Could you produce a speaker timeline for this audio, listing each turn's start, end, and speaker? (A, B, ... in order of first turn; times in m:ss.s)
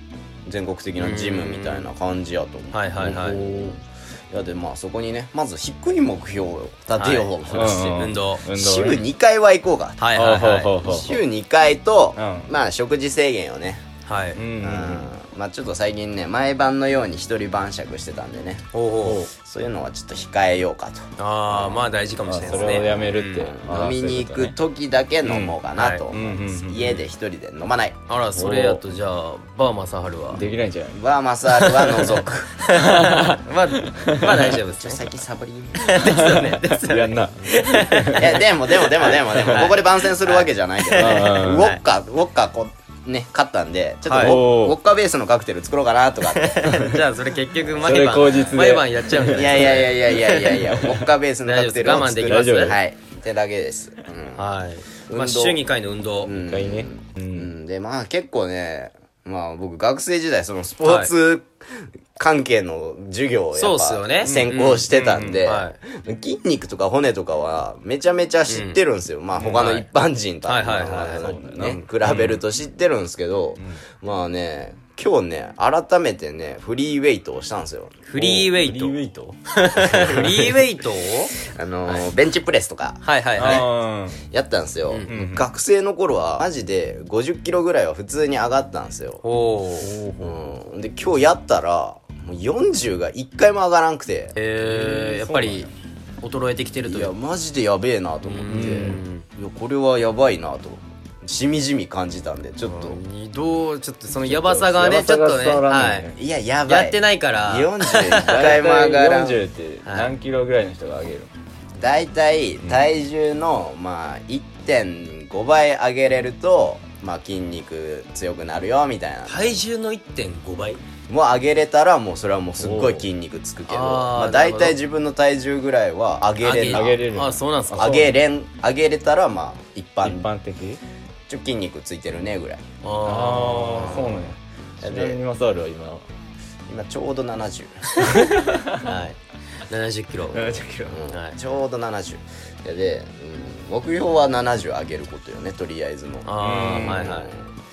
0:00.5-0:10.0 A
0:01.0-0:01.9 B
0:02.7-0:03.5 B
0:07.0-0:08.4 B
0:07.5-0:09.0 C
0:10.0-0:10.8 B
0:10.1-0:11.2 C
0:10.7-0:13.8 A
0:12.2-0:12.5 C
0:14.0-0:14.4 B
0:14.4-0:15.1 C
0:14.6-0:18.7 A
0:18.7-0:19.2 B
0:19.0-0:19.3 C
0:19.4-0:21.9 A
0:21.2-0:23.5 B
0:22.2-0:24.6 C
0:22.4-0:28.0 A
0:25.2-0:25.6 C
0:25.7-0:26.0 B
0:26.1-0:27.0 C
0:28.1-0:30.4 B
0:28.4-0:28.8 C
0:30.3-0:31.0 C
0:31.0-0:32.6 A
0:31.8-0:32.0 B
0:32.6-0:35.1 B
0:32.7-0:34.6 C
0:34.4-0:36.4 A
0:35.8-0:41.8 B
0:36.0-0:38.4 C
0:38.2-0:47.0 A
0:39.4-0:39.7 C
0:41.0-0:41.7 C
0:44.0-0:44.4 B
0:44.2-0:44.8 C
0:46.3-0:52.8 B
0:47.8-0:49.7 C
0:47.8-0:54.5 A
0:51.9-0:52.8 C
0:54.4-0:56.3 B
0:55.1-0:55.6 A
0:56.2-1:18.4 A
0:56.3-0:57.5 C
1:00.8-1:01.1 B
1:03.6-1:04.9 B
1:04.9-1:05.4 C
1:05.4-1:05.8 B
1:08.5-1:08.8 B
1:09.4-1:09.9 B
1:10.4-1:11.3 B
1:11.1-1:12.4 C
1:18.0-1:19.0 B
1:18.2-1:20.5 C
1:19.5-1:21.3 B
1:21.5-1:23.7 A
1:23.0-1:23.6 B
1:23.4-1:24.2 C
1:24.3-1:29.2 A
1:24.9-1:25.2 B
1:25.1-1:25.5 C
1:29.2-1:29.9 B
1:29.8-1:30.5 C
1:30.2-1:34.4 A
1:34.4-1:35.7 B
1:34.6-1:35.7 C
1:36.2-1:37.1 B
1:36.8-1:43.0 A
1:38.2-1:39.3 B
1:38.5-1:39.0 C
1:42.6-1:46.1 B
1:44.2-1:46.2 C
1:46.1-1:49.4 A
1:46.7-1:48.5 B
1:48.3-1:51.3 C
1:49.8-1:50.1 B
1:51.8-1:59.6 A
1:59.3-2:00.8 B
2:01.1-2:07.0 A
2:02.6-2:03.1 C
2:03.7-2:04.8 B
2:06.4-2:08.1 B
2:06.7-2:08.1 C
2:07.7-2:10.3 A
2:10.0-2:10.8 C
2:11.3-2:12.6 A
2:12.8-2:14.2 B
2:13.0-2:16.0 C
2:14.8-2:15.2 A
2:16.7-2:18.0 A
2:18.1-2:19.0 C
2:18.8-2:21.4 B
2:20.3-2:21.0 C
2:20.8-2:27.5 A
2:26.2-2:27.4 B
2:26.4-2:27.2 C